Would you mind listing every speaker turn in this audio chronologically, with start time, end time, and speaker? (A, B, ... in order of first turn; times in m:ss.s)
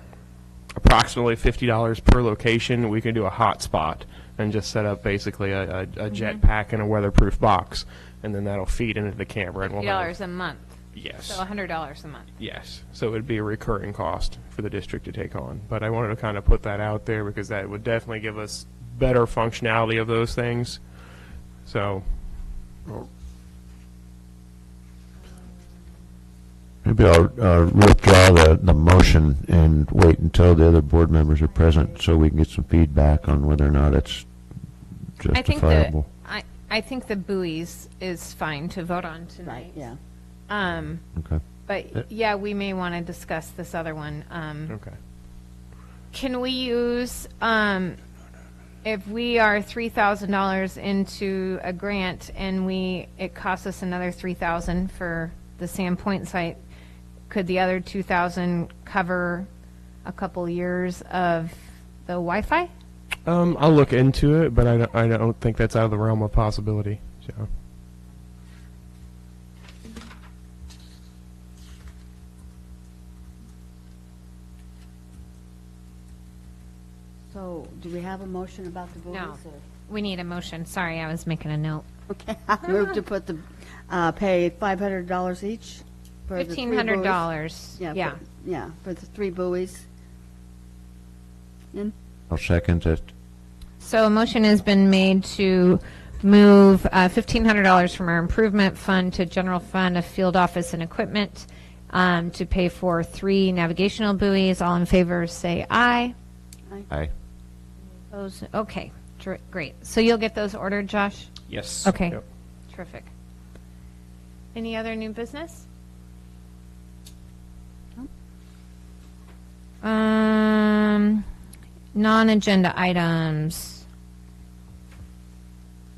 0:00.8-0:10.1 A
0:06.1-0:06.4 B
0:09.6-0:12.3 B
0:10.9-0:11.4 A
0:12.4-0:20.9 A
0:21.6-0:23.1 A
0:26.8-0:34.3 C
0:35.2-0:36.1 C
0:35.3-0:39.8 B
0:39.4-0:40.0 D
0:40.5-0:41.0 B
0:41.2-0:41.4 C
0:41.6-0:44.8 B
0:44.7-0:45.0 A
0:46.1-0:48.0 B
0:48.8-0:56.6 B
0:57.3-0:59.5 B
1:00.0-1:02.7 B
1:03.2-1:07.5 A
1:17.3-1:19.6 D
1:19.1-1:21.8 B
1:22.1-1:29.8 D
1:26.4-1:28.2 B
1:32.3-1:33.1 C
1:33.8-1:46.1 B
1:48.1-1:51.3 B
1:51.5-1:52.2 A
1:51.8-1:52.2 B
1:52.7-1:53.1 B
1:54.5-1:55.6 B
1:59.8-2:01.2 B
2:01.9-2:03.8 B